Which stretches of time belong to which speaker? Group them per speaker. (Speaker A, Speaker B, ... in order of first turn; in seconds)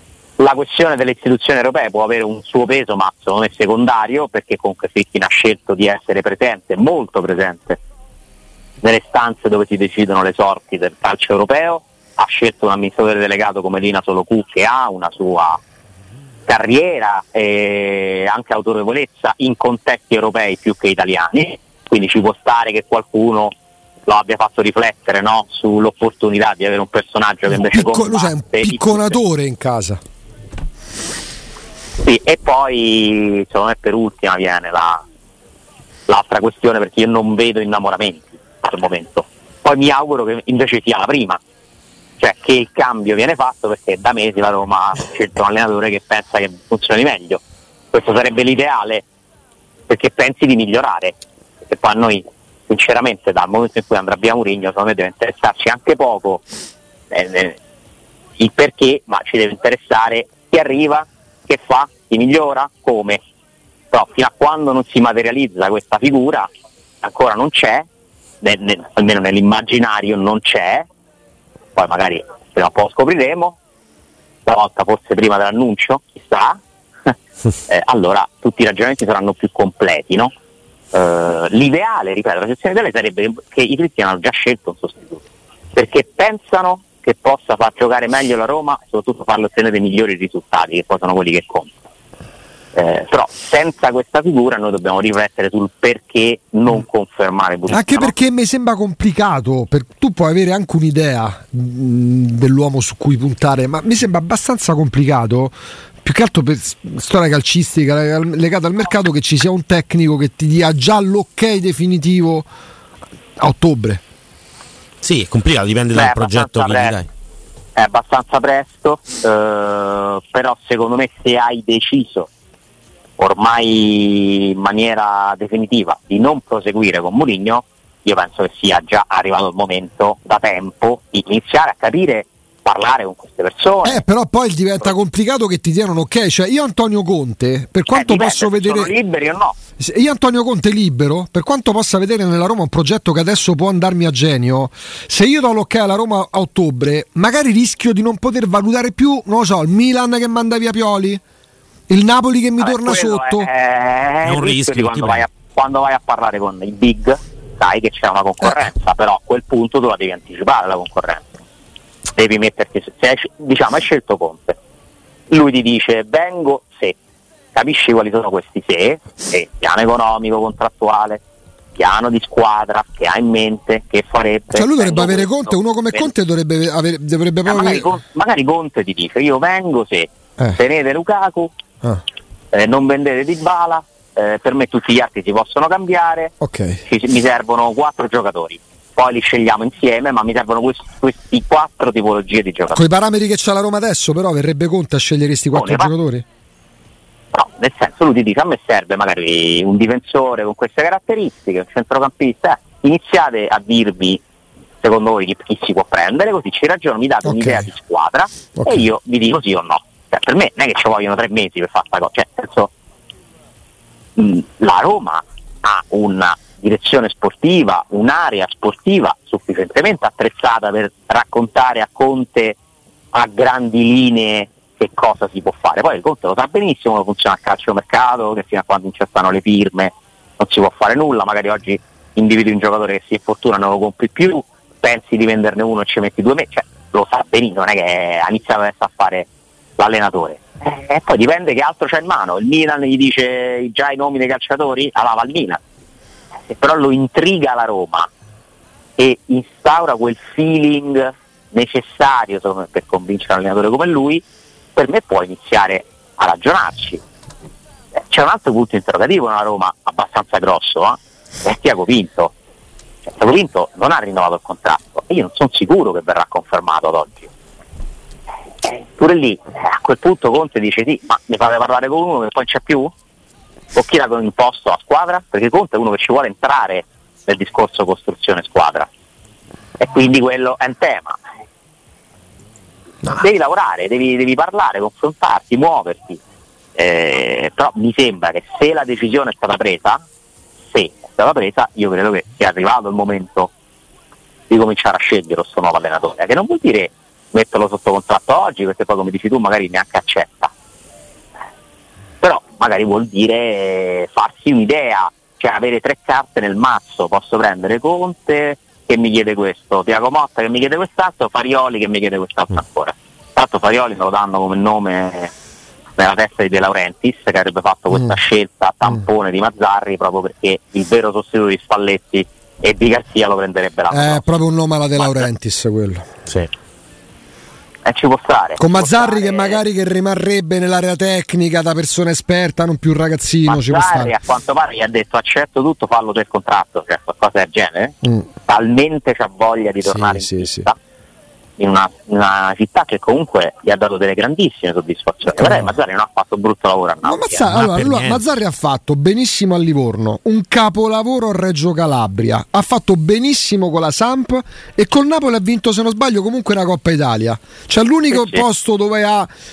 Speaker A: 0.4-7.8, 8.8-15.6, 16.5-23.5, 24.1-29.2, 32.0-35.0, 36.1-41.4, 42.2-47.4, 47.9-49.0, 49.9-56.4, 57.1-57.6, 58.4-63.2, 63.9-66.5, 67.0-67.9, 68.4-70.9, 71.8-73.6, 74.5-77.1, 77.7-80.3, 80.9-85.2, 85.7-91.8, 92.7-98.1, 115.9-117.0, 117.8-122.3, 123.2-134.0, 137.9-139.6, 152.6-161.2, 162.2-164.6, 165.3-167.0, 167.5-171.2, 171.8-176.1, 177.4-181.5, 182.5-192.8, 195.5-195.9, 197.3-204.2, 204.8-212.7, 214.2-222.6, 223.1-245.6, 246.5-248.1, 249.0-254.2, 254.8-257.0, 257.9-262.3, 263.0-267.3, 268.6-272.9, 273.7-278.9, 279.8-281.2, 283.1-286.2, 286.8-290.0, 290.7-293.5, 294.5-300.5, 302.2-315.3, 316.0-324.4, 325.0-325.2, 327.9-329.6, 333.4-340.8, 341.6-347.5, 358.1-358.4
Speaker B: 27.5-30.0, 97.7-112.5, 113.4-114.0, 133.8-138.9, 139.8-151.2, 151.9-153.5, 174.5-177.9, 186.4-186.8, 192.7-196.2, 207.2-207.7, 208.6-208.8, 323.9-326.1, 328.6-334.1, 339.9-340.6, 345.4-345.7, 347.0-359.3
Speaker C: 115.0-117.1, 154.2-155.2, 347.5-348.2